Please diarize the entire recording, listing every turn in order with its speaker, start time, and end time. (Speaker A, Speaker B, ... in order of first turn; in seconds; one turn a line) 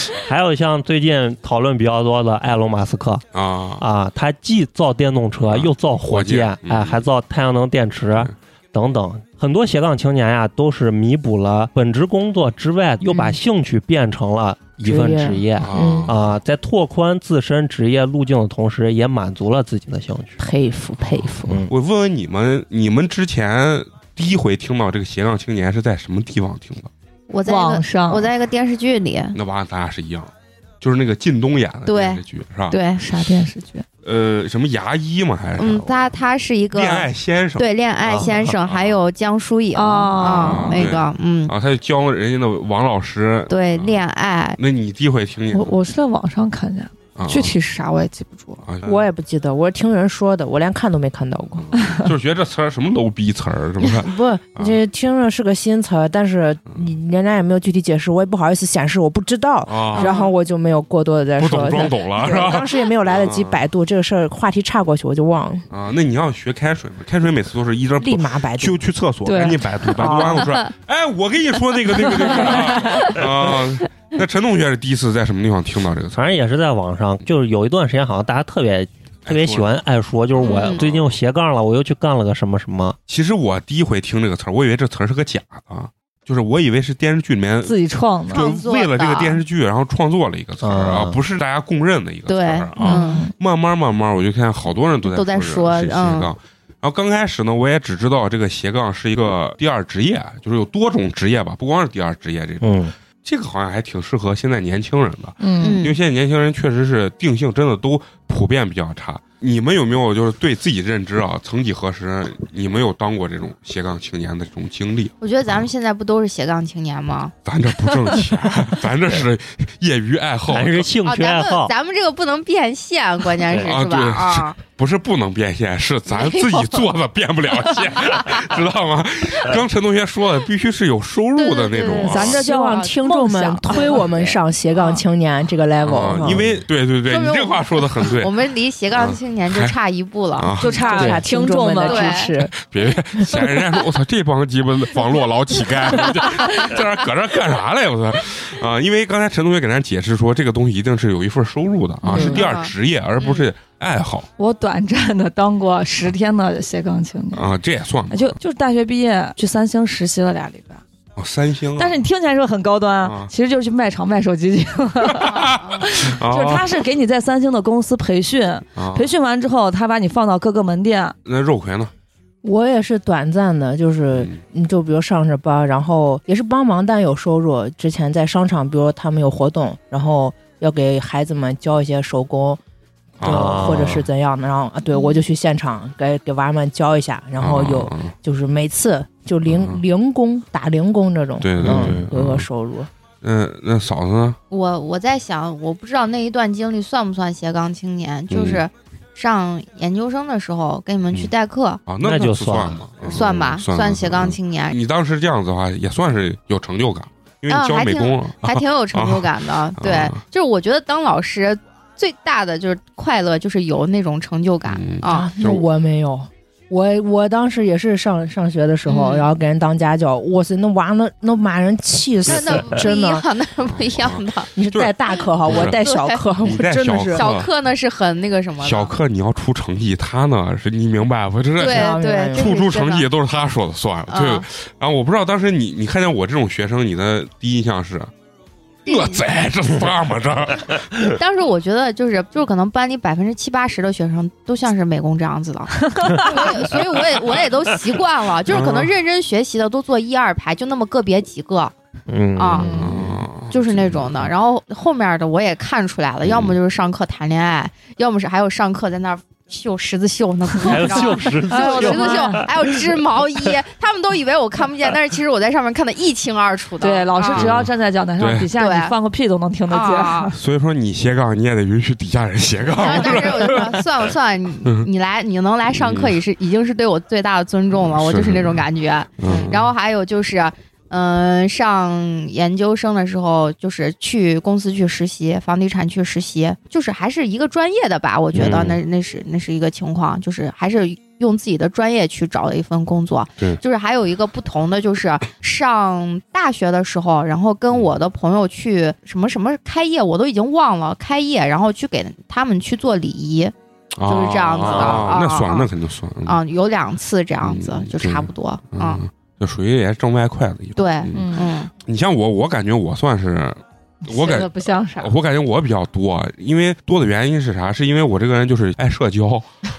Speaker A: 0.2-3.2
Speaker B: 3.3-3.8
Speaker A: 3.8-20.4
Speaker B: 5.4-7.0
Speaker C: 13.0-13.4
Speaker C: 14.8-16.1
Speaker B: 15.6-16.2
Speaker C: 20.4-21.6
Speaker B: 21.1-26.9
Speaker A: 21.5-21.7
Speaker D: 27.3-29.4
Speaker E: 27.4-28.3
Speaker B: 29.3-32.8
Speaker D: 31.9-33.0
Speaker E: 32.7-33.8
Speaker B: 34.0-36.1
Speaker D: 35.6-41.5
Speaker B: 36.7-39.0
Speaker E: 39.7-40.9
Speaker B: 40.2-44.0
Speaker D: 43.5-44.6
Speaker B: 44.6-45.7
Speaker E: 45.5-48.6
Speaker B: 47.1-47.5
Speaker B: 48.6-49.1
Speaker C: 48.8-51.8
Speaker B: 51.6-54.8
Speaker E: 51.7-52.1
Speaker C: 54.0-65.7
Speaker B: 59.6-60.1
Speaker D: 60.0-60.3
Speaker B: 61.4-63.6
Speaker B: 65.7-76.2
Speaker C: 68.0-68.8
Speaker E: 69.2-70.3
Speaker C: 70.0-70.5
Speaker E: 72.8-73.1
Speaker A: 76.1-83.0
Speaker B: 79.2-79.7
Speaker D: 80.4-80.8
Speaker B: 80.4-81.1
Speaker B: 83.1-87.8
Speaker E: 87.6-88.5
Speaker B: 88.3-115.7
Speaker D: 88.3-89.4
Speaker A: 90.6-91.2
Speaker D: 92.3-93.2
Speaker E: 92.8-93.3
Speaker C: 92.9-93.2
Speaker D: 95.0-96.3
Speaker A: 102.6-102.9
Speaker E: 105.4-105.8
Speaker D: 105.6-106.0
Speaker D: 115.2-117.3
Speaker B: 117.4-120.9
Speaker A: 120.5-121.7
Speaker D: 121.0-124.6
Speaker B: 123.5-132.4
Speaker D: 126.1-126.8
Speaker D: 128.1-128.4
Speaker D: 131.3-132.9
Speaker E: 131.8-134.1
Speaker C: 132.3-136.4
Speaker D: 133.7-135.0
Speaker B: 135.8-138.3
Speaker D: 137.0-140.5
Speaker B: 138.9-139.7
Speaker B: 140.3-140.8
Speaker E: 140.6-142.3
Speaker C: 140.7-142.5
Speaker D: 141.8-142.3
Speaker B: 142.5-154.3
Speaker D: 152.0-153.5
Speaker E: 152.1-152.4
Speaker C: 152.1-152.4
Speaker E: 154.4-157.5
Speaker B: 157.3-158.4
Speaker E: 158.1-160.8
Speaker B: 161.2-162.0
Speaker E: 161.8-171.2
Speaker B: 163.0-163.3
Speaker B: 165.1-166.8
Speaker D: 165.3-165.9
Speaker B: 168.8-169.1
Speaker B: 171.2-171.9
Speaker C: 172.4-182.6
Speaker B: 174.1-174.4
Speaker B: 183.2-184.0
Speaker C: 183.2-192.9
Speaker A: 183.2-184.1
Speaker D: 184.9-185.2
Speaker B: 187.4-188.2
Speaker B: 189.4-189.8
Speaker B: 191.4-192.5
Speaker A: 191.6-192.1
Speaker B: 193.2-194.4
Speaker D: 194.5-201.8
Speaker B: 198.3-198.6
Speaker B: 201.9-210.2
Speaker A: 202.0-202.8
Speaker D: 203.0-204.8
Speaker D: 207.5-215.3
Speaker B: 214.7-215.6
Speaker C: 215.1-223.2
Speaker D: 218.8-219.3
Speaker D: 222.2-224.5
Speaker B: 222.3-222.6
Speaker B: 223.7-225.8
Speaker C: 224.5-227.3
Speaker D: 225.1-228.9
Speaker B: 226.4-227.5
Speaker B: 228.6-238.1
Speaker D: 231.6-233.1
Speaker C: 231.7-232.5
Speaker D: 234.1-234.5
Speaker D: 238.8-239.2
Speaker B: 238.8-240.9
Speaker D: 241.1-251.7
Speaker E: 245.9-246.4
Speaker B: 248.5-248.9
Speaker A: 252.1-253.1
Speaker D: 252.3-267.5
Speaker B: 252.6-254.3
Speaker B: 256.2-256.6
Speaker A: 260.6-263.0
Speaker E: 261.5-262.4
Speaker E: 266.8-270.4
Speaker B: 267.3-268.5
Speaker D: 268.6-268.9
Speaker D: 269.7-270.3
Speaker B: 270.3-273.9
Speaker D: 272.8-303.5
Speaker B: 275.7-276.2
Speaker B: 277.8-278.6
Speaker B: 279.2-279.7
Speaker B: 288.3-288.8
Speaker B: 303.9-306.4
Speaker D: 304.1-305.7
Speaker A: 304.6-305.1
Speaker D: 306.2-309.0
Speaker B: 307.4-319.5
Speaker D: 310.8-311.7
Speaker E: 311.1-311.5
Speaker E: 314.0-315.1